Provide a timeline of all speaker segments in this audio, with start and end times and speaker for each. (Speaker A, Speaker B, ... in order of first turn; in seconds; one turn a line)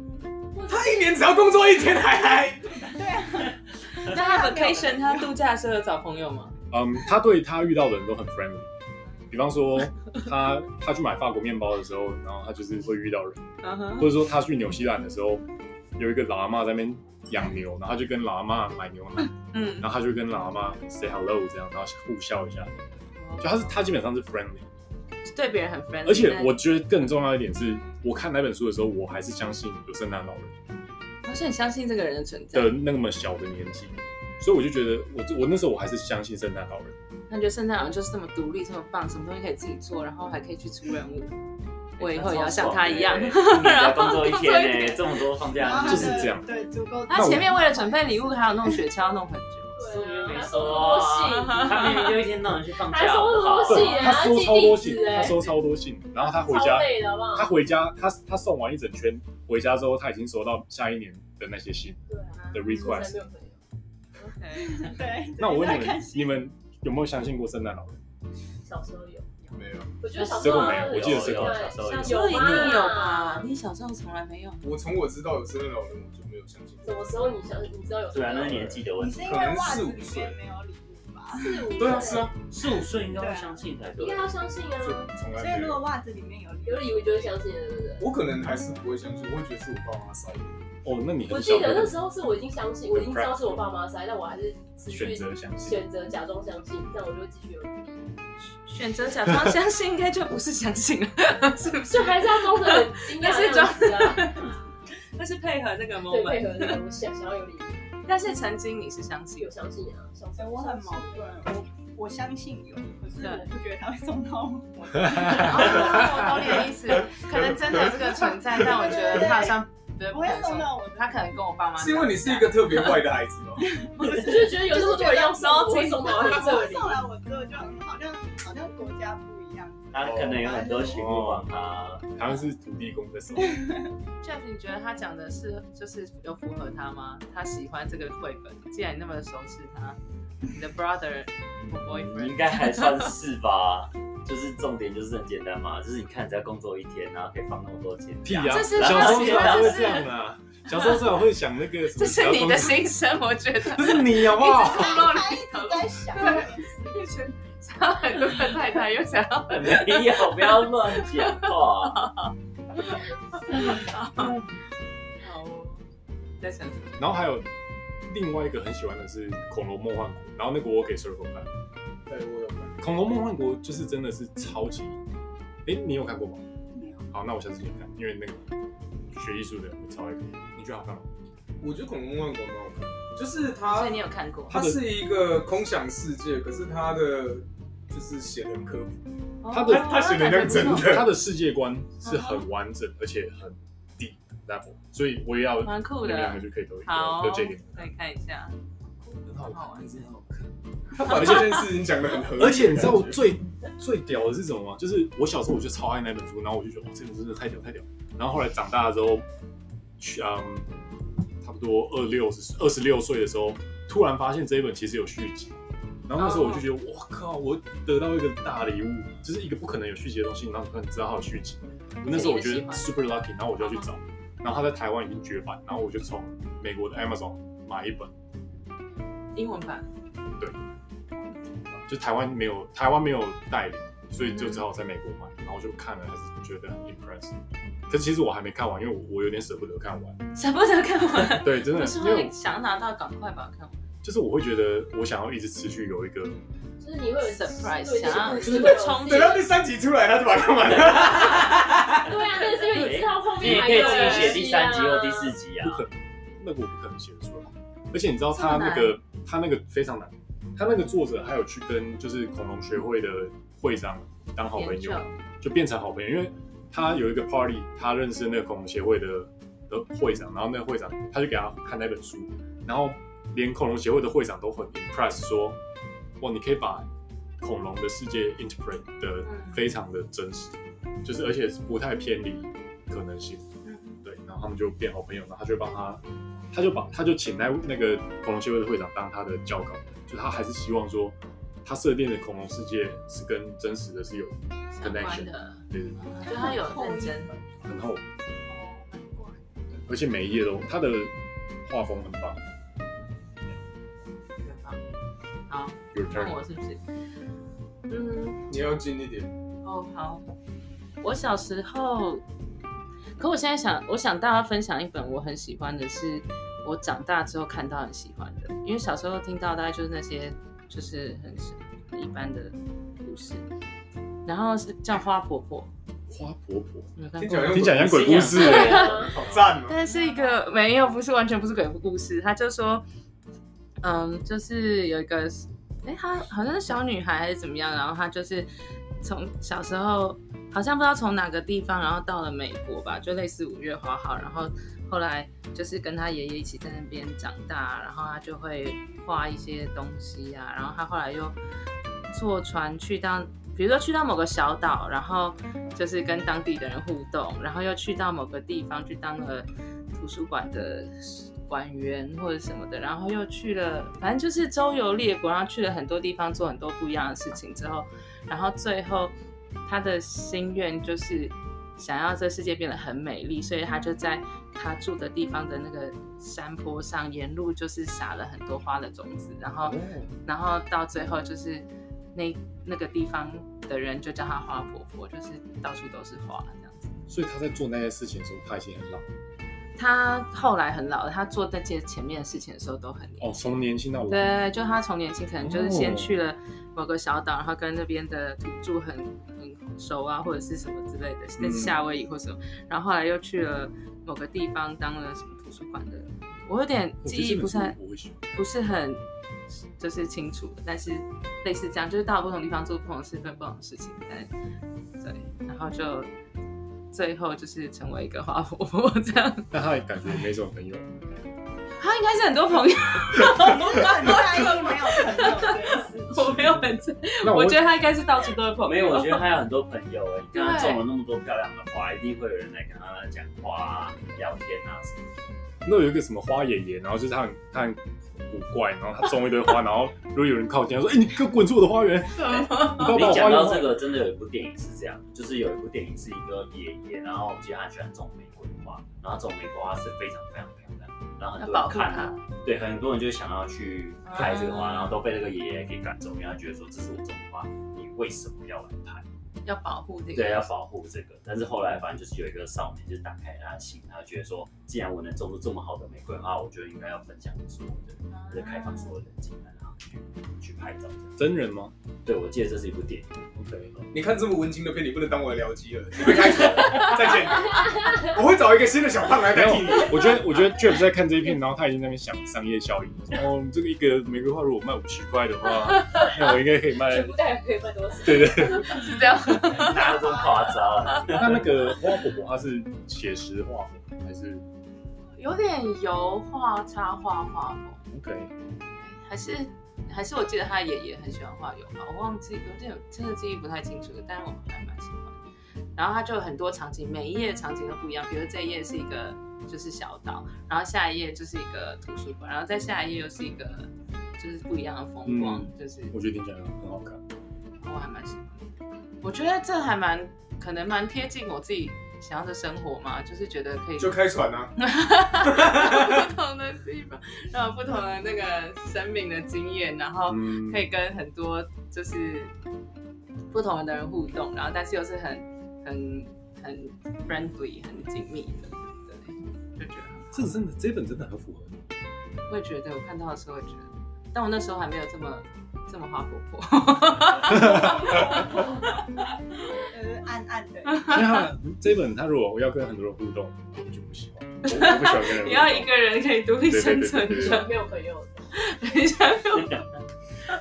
Speaker A: 0.5-1.2
Speaker B: 0.7-2.8
Speaker C: 2.8-5.3
Speaker D: 4.0-6.6
Speaker E: 6.7-8.7
Speaker E: 9.3-13.4
Speaker D: 13.6-14.1
Speaker E: 14.0-15.4
Speaker E: 16.0-22.7
Speaker D: 19.4-19.9
Speaker D: 23.2-23.9
Speaker E: 23.4-24.7
Speaker D: 25.2-26.6
Speaker E: 26.0-30.5
Speaker D: 31.2-32.8
Speaker E: 32.5-37.0
Speaker D: 37.3-41.3
Speaker D: 42.0-45.2
Speaker F: 42.0-46.3
Speaker C: 45.6-48.8
Speaker E: 45.8-46.5
Speaker D: 47.1-49.8
Speaker E: 47.1-47.5
Speaker A: 49.8-52.2
Speaker F: 49.8-54.2
Speaker D: 51.3-52.2
Speaker A: 52.9-55.5
Speaker E: 53.6-62.0
Speaker A: 56.4-57.5
Speaker A: 62.1-63.6
Speaker D: 62.3-62.8
Speaker E: 62.5-63.2
Speaker D: 64.2-65.0
Speaker C: 64.6-66.4
Speaker E: 65.4-68.0
Speaker A: 68.6-69.3
Speaker B: 69.5-70.0
Speaker A: 70.0-73.5
Speaker E: 70.2-72.8
Speaker F: 70.2-72.7
Speaker D: 71.8-74.6
Speaker B: 74.6-77.2
Speaker A: 76.8-78.8
Speaker F: 78.1-79.4
Speaker C: 78.9-81.9
Speaker B: 79.2-80.4
Speaker A: 81.3-82.3
Speaker B: 81.8-82.3
Speaker F: 82.5-84.3
Speaker C: 82.8-83.6
Speaker A: 84.0-85.1
Speaker B: 84.8-85.8
Speaker C: 85.2-87.3
Speaker A: 86.6-88.1
Speaker B: 88.0-90.6
Speaker E: 90.8-92.0
Speaker A: 91.3-98.0
Speaker E: 92.9-93.5
Speaker E: 94.9-95.8
Speaker D: 98.5-106.8
Speaker A: 101.8-104.6
Speaker A: 106.0-107.8
Speaker D: 108.0-109.5
Speaker A: 109.4-111.4
Speaker C: 110.3-116.7
Speaker D: 113.2-113.5
Speaker D: 115.3-122.9
Speaker E: 115.8-116.2
Speaker C: 117.7-121.3
Speaker B: 121.8-123.7
Speaker C: 123.7-131.0
Speaker A: 124.0-127.0
Speaker D: 125.3-126.4
Speaker F: 129.9-132.0
Speaker B: 130.0-130.4
Speaker E: 130.8-131.5
Speaker E: 132.1-133.6
Speaker C: 133.4-133.9
Speaker D: 134.2-140.0
Speaker D: 140.5-143.1
Speaker F: 141.5-149.9
Speaker E: 148.2-152.9
Speaker D: 148.5-150.1
Speaker D: 150.7-151.0
Speaker D: 151.9-164.3
Speaker E: 153.6-155.0
Speaker C: 154.2-157.1
Speaker F: 159.5-162.1
Speaker D: 165.2-165.8
Speaker D: 166.4-167.1
Speaker E: 167.0-167.5
Speaker E: 168.1-171.5
Speaker B: 172.1-172.8
Speaker E: 172.8-175.0
Speaker E: 175.6-176.4
Speaker C: 176.7-177.0
Speaker E: 177.1-178.5
Speaker E: 179.1-181.1
Speaker B: 181.6-189.0
Speaker D: 183.7-184.6
Speaker E: 184.5-184.9
Speaker D: 189.4-191.0
Speaker E: 189.5-197.9
Speaker B: 189.7-191.1
Speaker D: 192.0-192.5
Speaker D: 195.6-198.6
Speaker E: 199.2-201.6
Speaker D: 199.4-200.1
Speaker B: 200.9-203.2
Speaker E: 202.3-209.2
Speaker E: 210.0-210.7
Speaker E: 211.4-215.6
Speaker E: 216.1-228.1
Speaker D: 216.2-216.6
Speaker D: 222.0-222.9
Speaker D: 223.6-223.9
Speaker D: 229.3-229.9
Speaker E: 231.8-237.3
Speaker D: 234.2-234.6
Speaker E: 237.9-240.2
Speaker D: 240.3-243.8
Speaker E: 241.3-242.3
Speaker E: 244.0-246.4
Speaker A: 246.8-249.4
Speaker D: 247.2-249.5
Speaker B: 248.2-252.2
Speaker A: 252.1-255.3
Speaker F: 252.6-255.8
Speaker E: 252.7-253.7
Speaker D: 253.5-254.5
Speaker E: 255.6-275.6
Speaker D: 258.3-259.0
Speaker D: 264.5-265.1
Speaker E: 276.2-276.9
Speaker E: 277.4-283.4
Speaker D: 279.2-279.6
Speaker D: 283.6-284.0
Speaker E: 284.0-296.5
Speaker D: 294.7-297.3
Speaker C: 296.2-297.3
Speaker E: 297.6-298.0
Speaker D: 298.5-299.3
Speaker E: 299.9-301.1
Speaker E: 301.6-302.4
Speaker D: 304.4-304.8
Speaker D: 305.5-306.8
Speaker E: 305.9-306.4
Speaker D: 307.9-308.3
Speaker B: 308.5-309.3
Speaker D: 309.6-310.2
Speaker D: 311.0-312.2
Speaker D: 313.2-323.4
Speaker D: 324.2-325.7
Speaker E: 326.1-328.9
Speaker D: 327.0-327.6
Speaker B: 327.2-329.8
Speaker F: 327.8-329.4
Speaker A: 328.3-329.2
Speaker D: 328.4-329.1
Speaker D: 329.6-332.8
Speaker D: 333.8-338.5
Speaker D: 339.0-351.4
Speaker D: 352.1-369.1
Speaker D: 369.6-386.9
Speaker E: 379.6-380.1
Speaker E: 387.1-389.1
Speaker D: 389.8-393.3
Speaker E: 393.2-394.2
Speaker D: 394.1-407.8
Speaker E: 395.4-396.1
Speaker E: 401.4-401.8
Speaker E: 407.0-408.4
Speaker D: 408.3-409.0
Speaker D: 409.7-414.3
Speaker D: 415.0-416.1
Speaker D: 416.9-419.5
Speaker E: 419.5-420.9
Speaker D: 421.8-429.3
Speaker C: 423.4-426.1
Speaker E: 426.1-426.6
Speaker E: 427.2-427.8
Speaker F: 428.6-435.0
Speaker D: 430.3-430.8
Speaker E: 435.6-443.8
Speaker D: 442.1-443.0
Speaker F: 442.7-459.0
Speaker D: 451.4-452.2
Speaker D: 454.1-455.0
Speaker D: 459.4-460.5
Speaker F: 460.1-471.1
Speaker D: 468.1-468.9
Speaker E: 471.2-471.7
Speaker F: 472.1-473.2
Speaker E: 473.3-473.7
Speaker B: 473.9-480.2
Speaker F: 476.1-477.0
Speaker A: 477.6-478.0
Speaker E: 479.3-487.2
Speaker A: 486.0-488.9
Speaker E: 488.0-488.8
Speaker D: 488.4-490.0
Speaker F: 489.5-491.5
Speaker E: 491.1-494.4
Speaker D: 495.2-497.8
Speaker E: 497.9-498.3
Speaker D: 498.8-505.2
Speaker D: 505.8-515.9
Speaker E: 515.0-517.0
Speaker D: 517.6-518.5
Speaker D: 519.0-524.0
Speaker B: 523.8-524.5
Speaker D: 524.6-532.3
Speaker B: 525.3-526.0
Speaker E: 530.1-530.6
Speaker D: 533.3-540.3
Speaker E: 540.1-541.6
Speaker D: 542.3-548.8
Speaker E: 547.3-548.0
Speaker C: 547.4-548.6
Speaker C: 549.7-551.0
Speaker D: 550.7-551.2
Speaker E: 550.9-555.7
Speaker D: 554.4-557.6
Speaker E: 556.4-557.5
Speaker A: 557.1-558.3
Speaker D: 558.3-559.6
Speaker F: 559.3-559.7